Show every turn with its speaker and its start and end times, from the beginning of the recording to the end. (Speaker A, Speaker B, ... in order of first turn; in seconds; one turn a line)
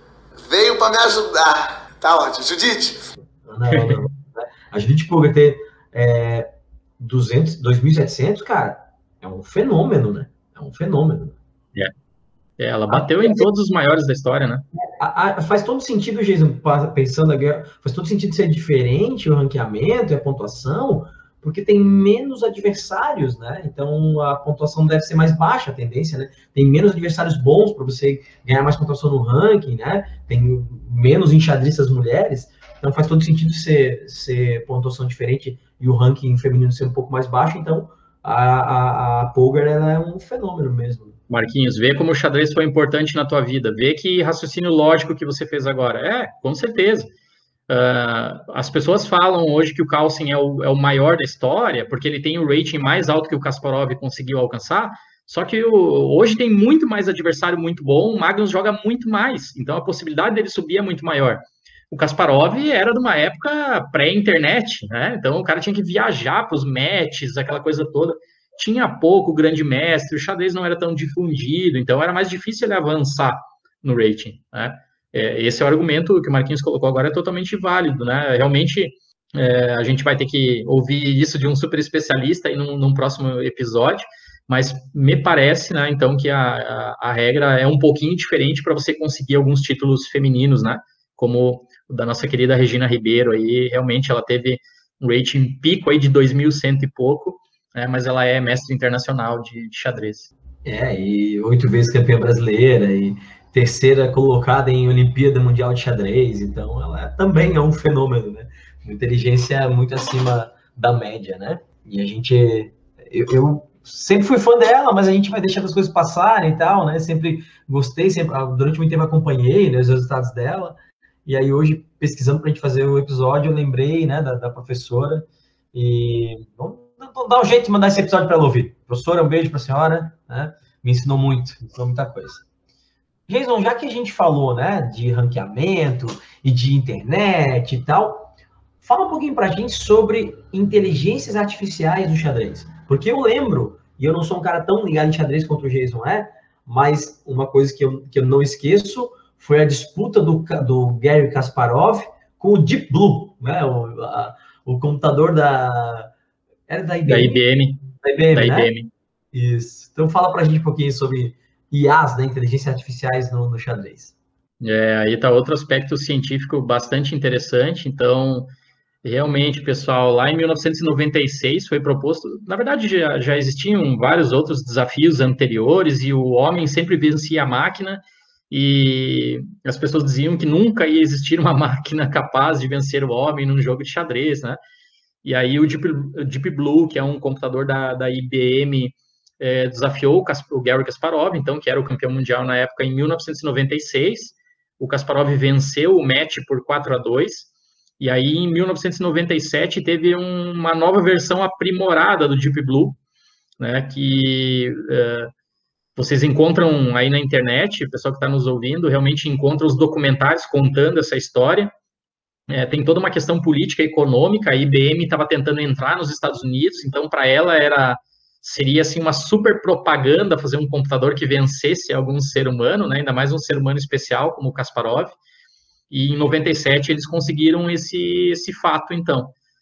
Speaker A: 0.4-3.1
Speaker B: 3.4-6.5
Speaker C: 3.7-4.0
Speaker B: 7.0-11.4
Speaker C: 12.6-14.6
Speaker B: 12.9-13.4
Speaker B: 14.7-41.2
Speaker C: 41.3-47.1
Speaker C: 47.7-100.3
Speaker B: 100.6-132.4
Speaker B: 133.3-156.1
Speaker B: 156.7-157.4
Speaker C: 157.1-158.9
Speaker B: 158.0-158.7
Speaker B: 159.3-164.1
Speaker C: 164.6-168.5
Speaker C: 169.0-184.6
Speaker C: 185.2-203.0
Speaker C: 203.6-205.3
Speaker C: 205.9-211.7
Speaker C: 212.5-225.2
Speaker C: 225.9-229.3